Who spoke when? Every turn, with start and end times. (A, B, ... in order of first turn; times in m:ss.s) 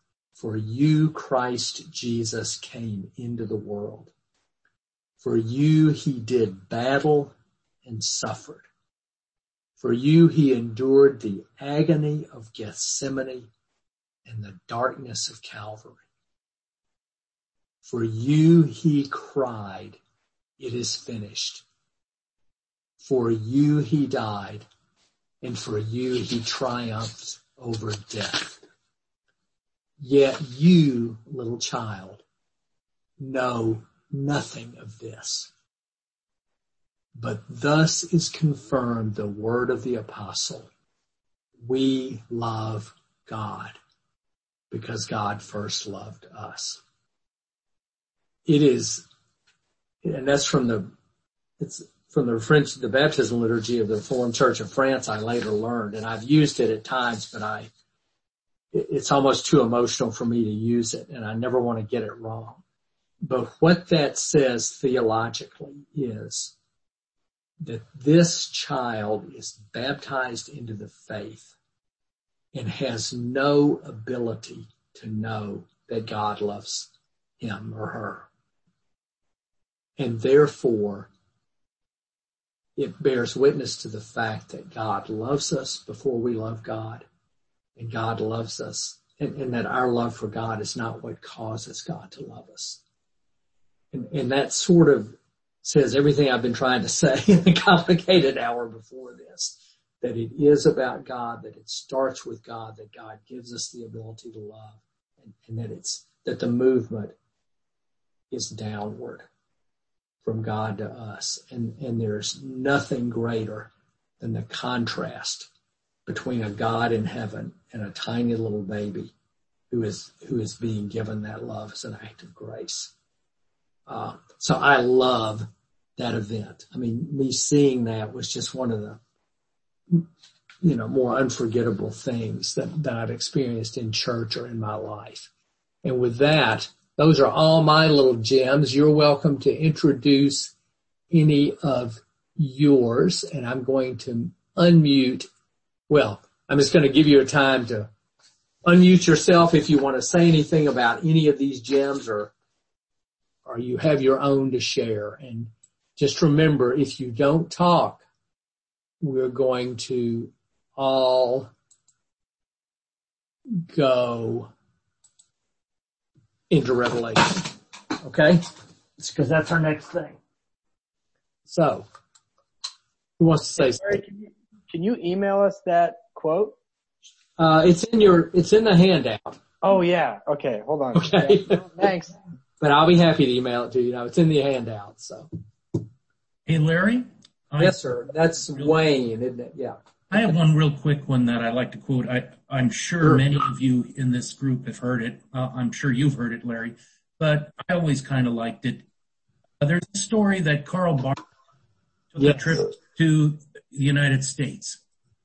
0:00.4-0:04.1 A
0:05.2-0:07.3 A
0:07.8-0:08.6 A
0:09.8-0:13.5 A
0:14.3-0:16.0 A
0:17.8-0:20.0 A
0:20.6-0:21.6 A
0:23.0-0:24.7 A
0:25.4-0:28.6 A
0:30.0-0:32.2 A
0:33.2-0:35.5 A
0:37.2-0:40.7 A
0:41.6-0:43.8 A
0:44.7-0:46.8 A
0:48.5-0:49.0 A
0:50.0-0:50.9 A
0:51.6-0:57.7 A
0:58.7-1:02.6 A
1:03.2-1:06.5 A
1:07.6-1:11.5 A
1:12.5-1:16.9 A
1:17.4-1:18.3 A
1:20.0-1:21.1 A
1:22.8-1:27.0 A
1:27.8-1:32.8 A
1:33.9-1:47.2 A
1:48.3-1:49.3 A
1:50.2-1:53.7 A
1:54.2-1:55.5 A
1:56.1-1:59.1 A
1:59.7-2:02.9 A
2:03.9-2:09.0 A
2:10.6-2:15.3 A
2:15.8-2:20.5 A
2:21.1-2:25.3 A
2:25.9-2:27.9 A
2:28.6-2:32.3 A
2:33.4-2:38.0 A
2:39.0-2:41.5 A
2:43.7-2:44.5 A
2:46.5-2:48.4 A
2:49.0-2:50.2 A
2:51.5-2:51.9 A
2:53.2-2:54.0 A
2:53.6-2:56.6 B
2:57.4-2:59.4 A
2:59.6-3:02.2 B
3:00.9-3:02.0 A
3:02.6-3:05.3 A
3:06.5-3:08.8 C
3:07.6-3:10.4 A
3:10.1-3:18.8 C
3:13.0-3:13.3 A
3:19.6-3:21.2 C
3:22.1-3:24.8 C
3:22.2-3:22.7 A